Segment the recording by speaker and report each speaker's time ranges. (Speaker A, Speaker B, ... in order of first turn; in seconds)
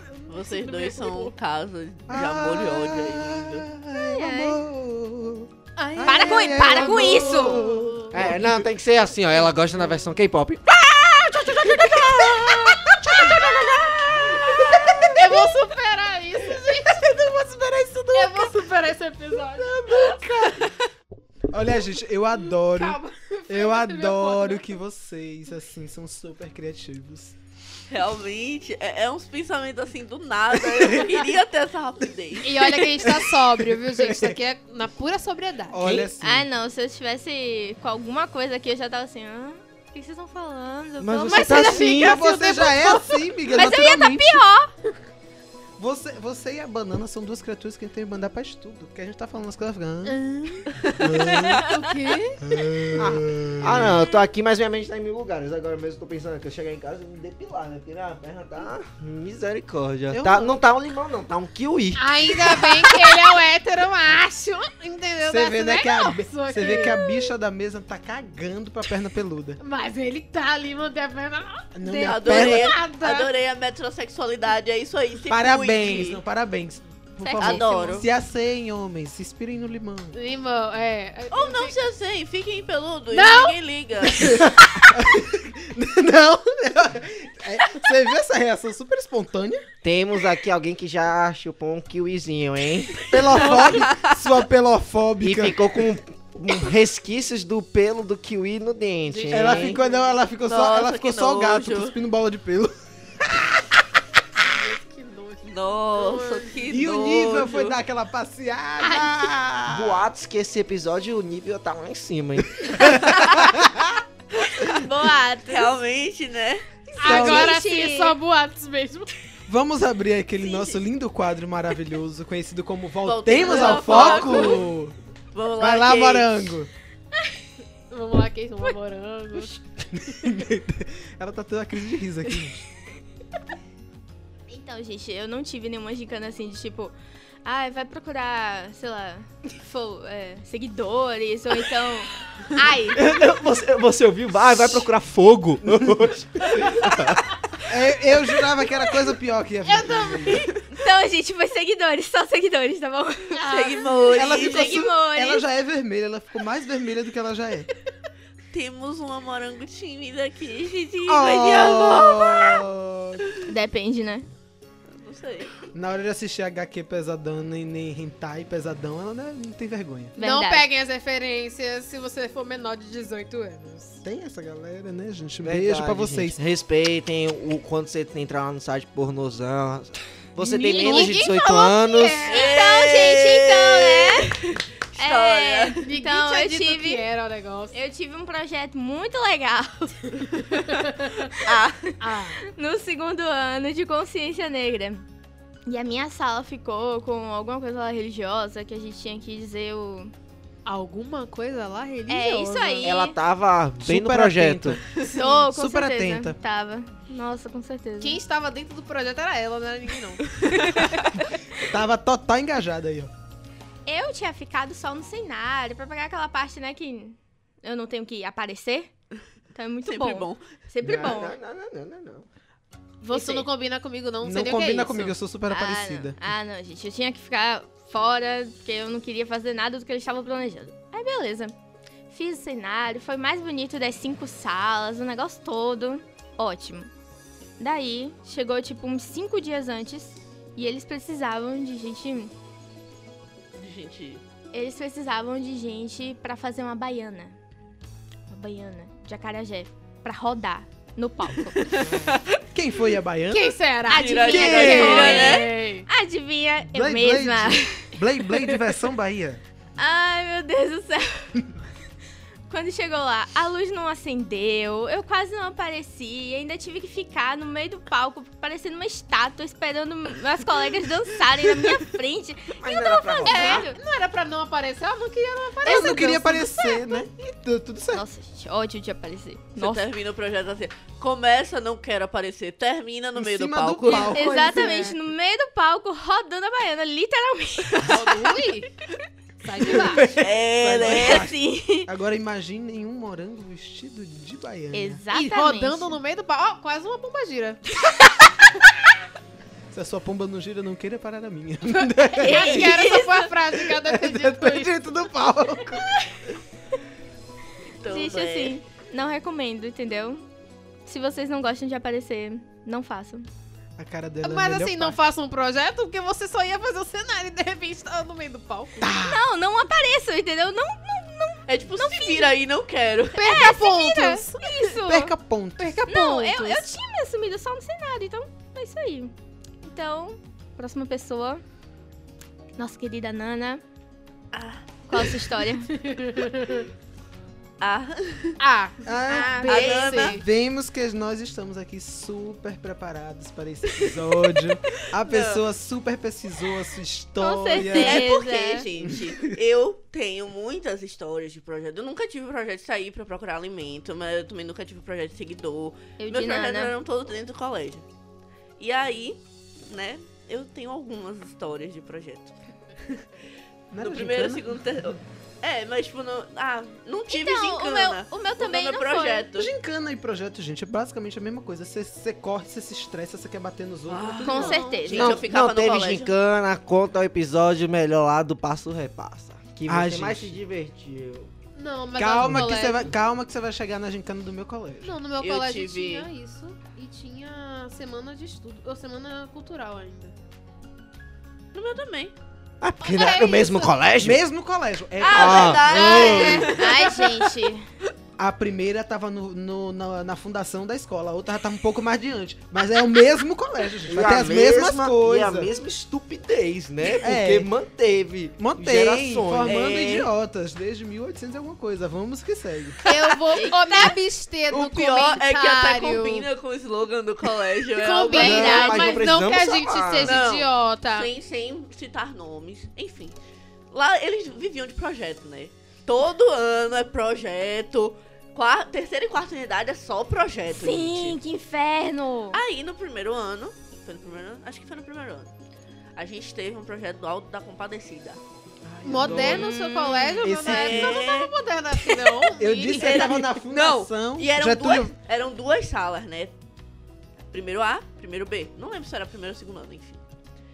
Speaker A: 0.1-1.3, 5.8-8.1, 15.0-17.1, 18.1-20.2, 22.6-24.7, 32.4-35.9, 41.3-43.2, 50.1-52.4, 62.0-67.3, 69.6-73.3, 80.1-81.8, 83.1-83.5, 99.1-100.1, 104.4-106.5, 108.8-109.3, 116.9-119.1, 123.5-124.6, 127.9-129.6, 149.7-150.5, 153.3-154.3, 170.2-174.0, 180.6-182.4, 185.8-187.8, 190.9-191.3, 192.0-192.4, 200.7-202.9, 205.0-205.4, 208.0-211.0, 223.0-225.2, 253.3-255.9, 273.3-276.5, 283.9-285.0, 287.8-288.7, 289.4-290.1, 295.1-297.6, 302.2-304.8, 314.2-318.9, 323.1-324.7, 325.6-326.7, 335.7-336.7, 338.4-340.2, 381.6-382.9, 384.8-390.1, 392.8-393.8, 412.9-416.3, 417.8-421.1, 438.8-443.1
Speaker B: 0.3-3.7, 7.3-7.7, 27.9-32.9, 72.0-76.2, 77.4-78.1, 81.3-84.4, 93.3-94.2, 100.5-102.0, 105.5-107.8, 114.4-116.8, 123.0-124.7, 125.3-126.5, 153.4-154.8, 158.5-162.6, 164.9-165.7, 180.7-181.0, 182.2-185.8, 191.4-191.9, 219.8-220.5, 243.6-244.2, 251.6-252.4, 253.9-255.5, 279.6-284.2, 290.0-291.3, 302.3-303.2, 307.8-308.6, 321.5-323.5, 334.3-335.3, 337.6-338.4, 339.5-340.2, 345.0-345.4, 347.6-357.8, 358.6-362.4, 363.8-369.5, 373.9-376.1, 385.2-386.1, 391.5-392.1, 395.0-397.3, 409.5-410.1, 412.9-413.9, 414.5-418.9, 420.0-423.2, 423.7-431.2, 432.3-435.3, 436.0-438.2, 440.4-446.3, 447.3-450.0
Speaker C: 2.1-8.7, 11.8-15.5, 16.6-18.7, 19.5-20.7, 21.5-27.4, 30.6-31.1, 33.0-34.4, 35.7-36.5, 41.7-44.4, 45.8-50.2, 51.0-51.6, 52.4-54.0, 60.1-60.6, 65.2-69.6, 71.8-72.7, 75.3-80.2, 84.2-89.7, 93.1-95.9, 99.3-103.5, 106.7-110.1, 112.6-113.9, 117.0-117.6, 119.5-125.0, 125.6-126.7, 129.9-132.7, 147.7-150.5, 154.2-157.7, 161.1-163.3, 165.7-170.1, 174.0-176.4, 203.8-204.9, 205.4-206.4, 211.7-213.1, 220.8-221.2, 224.2-226.2, 252.5-253.6, 254.4-255.1, 256.7-259.4, 275.6-278.1, 283.2-284.9, 289.7-295.0, 299.7-302.7, 303.7-306.0, 313.8-315.0, 318.8-319.2, 324.7-325.8, 338.9-348.1, 348.8-349.4, 363.7-365.0, 369.4-374.6, 379.7-380.4, 382.0-384.9, 394.0-396.5, 398.2-405.5, 407.0-407.5, 408.4-412.8, 438.6-439.5, 440.2-441.0, 442.4-444.9
Speaker D: 4.0-4.6, 6.0-7.8, 36.2-41.9, 43.5-44.7, 77.2-78.1, 114.5-115.7, 117.0-118.2, 124.0-124.3, 134.5-143.0, 150.7-153.6, 154.2-155.4, 163.4-164.3, 170.2-170.7, 180.6-181.3, 182.3-187.1, 187.7-195.1, 195.7-200.1, 202.1-203.2, 205.0-208.2, 213.9-218.9, 219.5-221.4, 223.2-223.4, 225.5-231.5, 232.1-236.9, 237.6-242.3, 244.5-247.3, 248.3-251.9, 253.9-258.5, 259.8-261.4, 262.5-273.8, 275.9-277.0, 277.9-279.9, 283.9-288.5, 290.8-291.9, 294.7-296.0, 302.2-303.1, 307.8-310.2, 310.9-313.3, 319.1-322.3, 323.2-325.1, 325.9-331.4, 332.6-333.6, 334.9-335.7, 339.1-339.7, 347.2-348.7, 356.0-356.7, 367.1-369.3, 374.2-375.2, 395.9-397.6, 413.3-413.9, 418.0-418.9, 430.5-432.4, 439.1-440.3
Speaker E: 8.1-15.2, 35.8-36.1, 41.0-42.2, 51.0-51.5, 52.9-63.1, 89.8-93.6, 95.2-99.8, 109.7-113.2, 142.9-147.6, 175.4-182.4, 202.8-204.8, 220.8-222.3, 272.5-273.7, 374.9-381.3, 392.6-394.2, 395.1-396.6, 403.9-409.8, 418.2-420.2